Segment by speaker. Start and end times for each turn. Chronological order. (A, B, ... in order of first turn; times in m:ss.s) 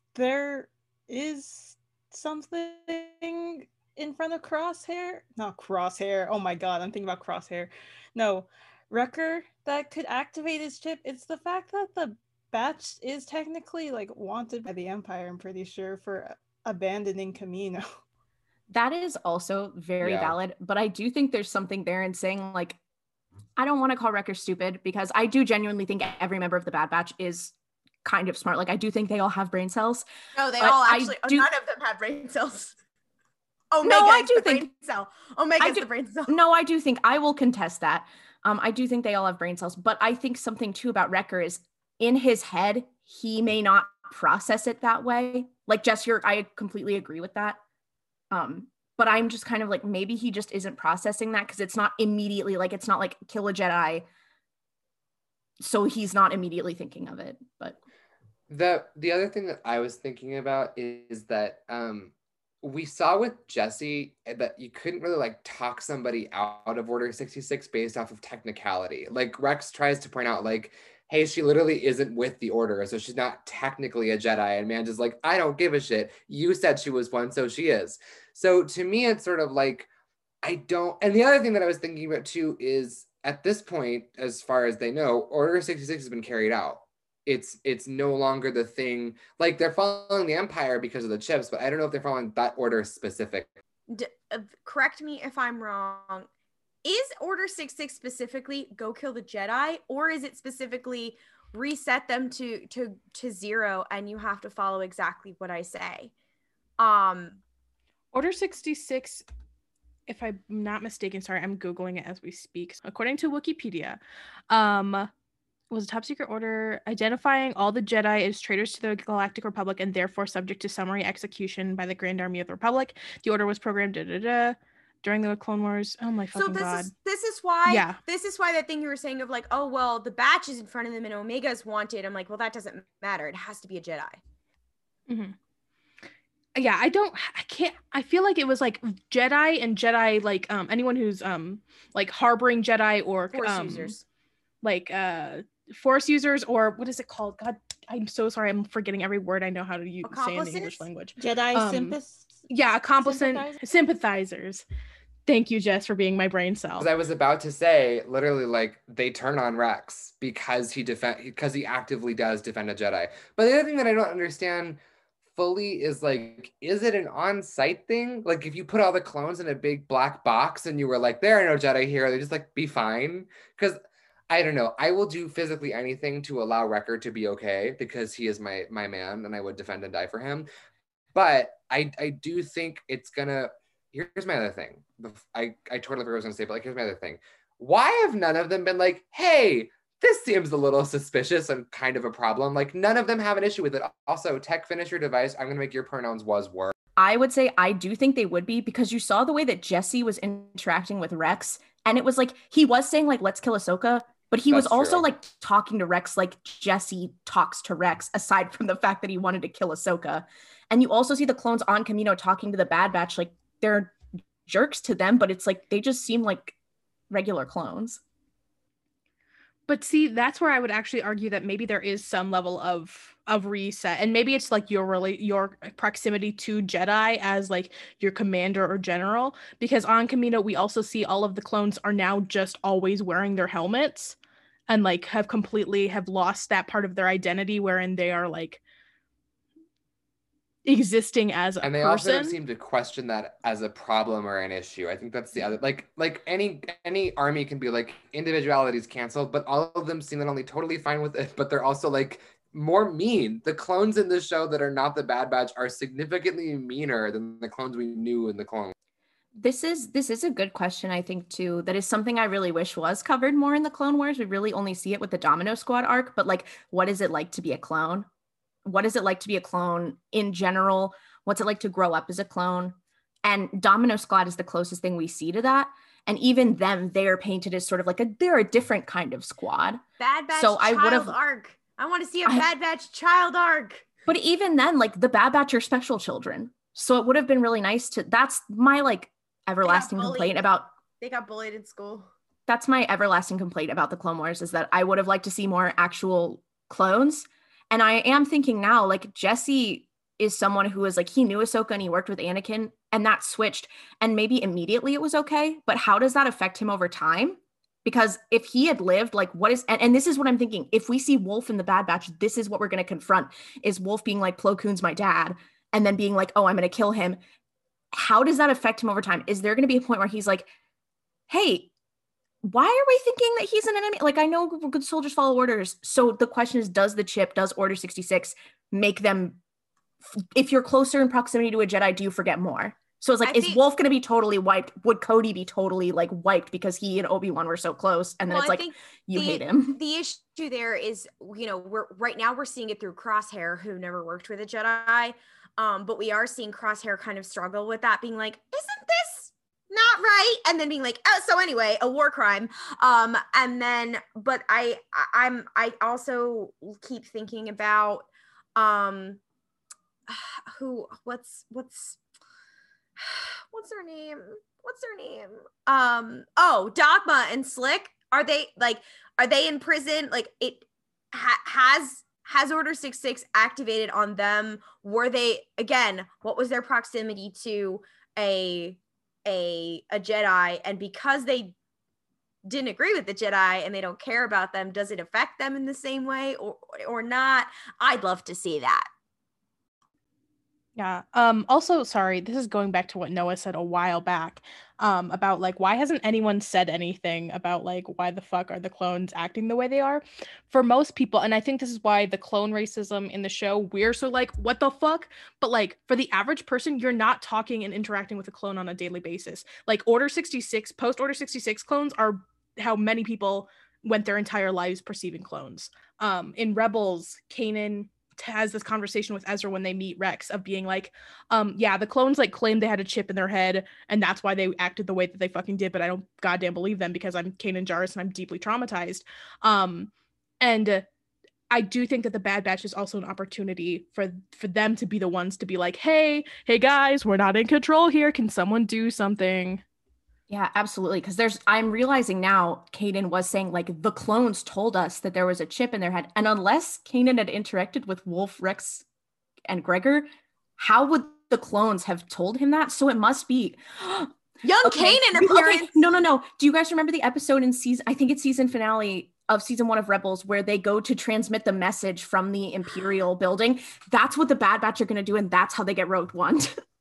0:00.1-0:17.8 A
0:18.7-0:22.8 B
0:20.0-0:20.3 C
0:23.6-0:27.5 B
0:28.0-0:30.0 B
0:30.3-0:32.8 D
0:30.6-0:31.5 B
0:33.7-0:36.3 D
0:33.8-0:34.7 B
0:35.6-0:47.6 B
0:48.3-0:54.0 B
0:55.6-0:57.8 B
0:58.5-1:19.9 C
1:20.4-1:33.5 C
1:33.9-1:36.3 D
1:36.8-1:46.1 D
1:46.8-1:47.4 D
1:48.1-1:49.2 E
1:50.1-1:54.0 E
1:54.5-1:55.1 E
1:55.7-2:06.9 E
2:06.3-2:14.2 D
2:07.7-2:08.0 E
2:15.1-2:15.3 E
2:16.6-2:23.9 E
2:23.3-2:24.0 D
2:24.6-2:32.0 E
2:30.0-2:30.8 D
2:31.2-2:32.5 A
2:32.5-2:34.6 E
2:33.0-2:33.6 A
2:35.2-2:36.9 E
2:36.8-2:44.8 C
2:45.3-2:53.8 C
2:54.3-3:00.5 C
3:01.1-3:16.7 C
3:17.0-3:36.6 B
3:24.5-3:25.0 C
3:37.1-3:38.0 B
3:39.7-3:54.2 E
3:54.7-3:58.6 E
4:00.6-4:02.4 E
4:01.6-4:18.7 C
4:19.4-4:28.1 B
4:28.6-4:39.8 B
4:40.0-4:43.8 D
4:40.3-4:41.2 B
4:44.1-4:50.7 B
4:49.6-4:50.4 D
4:51.0-4:52.1 D
4:52.5-5:17.2 B
5:17.9-5:20.5 B
5:21.3-5:21.7 B
5:22.4-5:29.4 B
5:30.1-5:39.8 B
5:33.2-5:33.6 D
5:38.3-5:59.2 D
6:00.1-6:02.0 D
6:03.0-6:21.6 D
6:22.4-6:28.9 D
6:30.8-7:09.9 E
7:10.4-7:10.8 E
7:11.5-7:19.6 E
7:20.3-7:28.8 B
7:29.4-7:46.5 B
7:34.4-7:35.7 D